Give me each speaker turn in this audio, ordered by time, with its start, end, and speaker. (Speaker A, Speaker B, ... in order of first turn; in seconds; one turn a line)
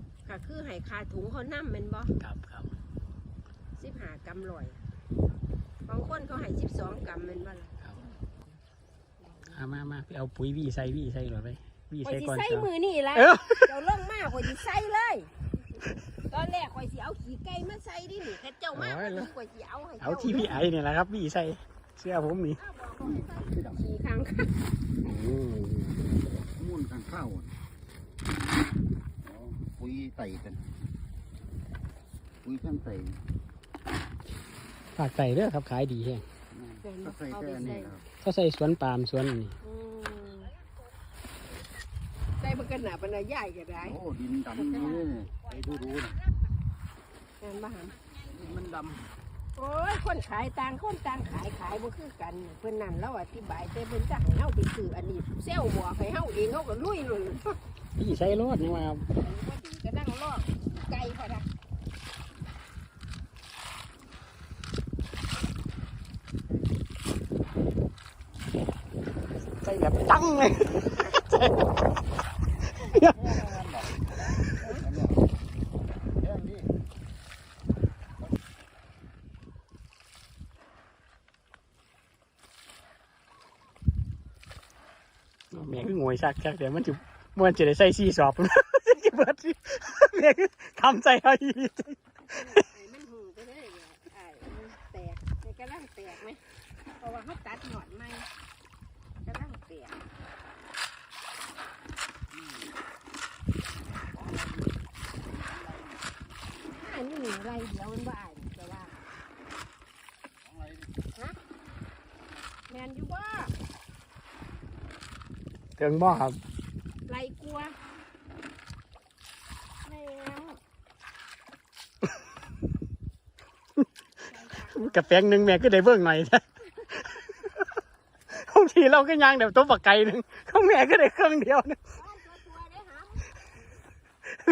Speaker A: 0.2-2.1
Speaker B: 2.2-2.8
Speaker A: 3.8-4.8
Speaker A: 5.8-8.3
Speaker B: 9.5-13.7
Speaker A: 12.0-15.3
Speaker A: 16.1-20.6
Speaker B: 18.7-19.3
Speaker B: 20.0-22.6
Speaker A: 22.6-24.5
Speaker C: 23.0-23.8
Speaker B: 25.0-26.0
Speaker C: 26.5-27.5
Speaker C: 29.2-30.6
Speaker C: 32.4-33.2
Speaker B: 35.0-36.2
Speaker C: 36.5-38.0
Speaker A: 36.8-38.0
Speaker B: 38.2-39.5
Speaker A: 39.6-40.5
Speaker A: 42.4-44.0
Speaker C: 43.9-46.2
Speaker A: 44.6-45.1
Speaker A: 47.4-48.0
Speaker C: 48.2-49.0
Speaker A: 49.5-57.6
Speaker B: 58.0-59.0
Speaker A: 59.1-61.5
Speaker B: 69.6-71.7
Speaker B: 72.8-73.5
Speaker C: 72.9-73.9
Speaker C: 74.7-75.1
Speaker B: 85.5-92.0
Speaker A: 92.3-96.4
Speaker A: 97.0-98.3
Speaker A: 99.2-100.0
Speaker C: 104.1-104.7
Speaker C: 105.4-106.0
Speaker A: 106.7-109.0
Speaker C: 110.4-110.9
Speaker A: 112.7-113.5
Speaker B: 115.8-116.4
Speaker A: 117.1-117.8
Speaker A: 119.8-120.6
Speaker A: 124.2-125.3
Speaker B: 124.7-127.8
Speaker B: 128.3-131.8
Speaker A: 131.9-133.2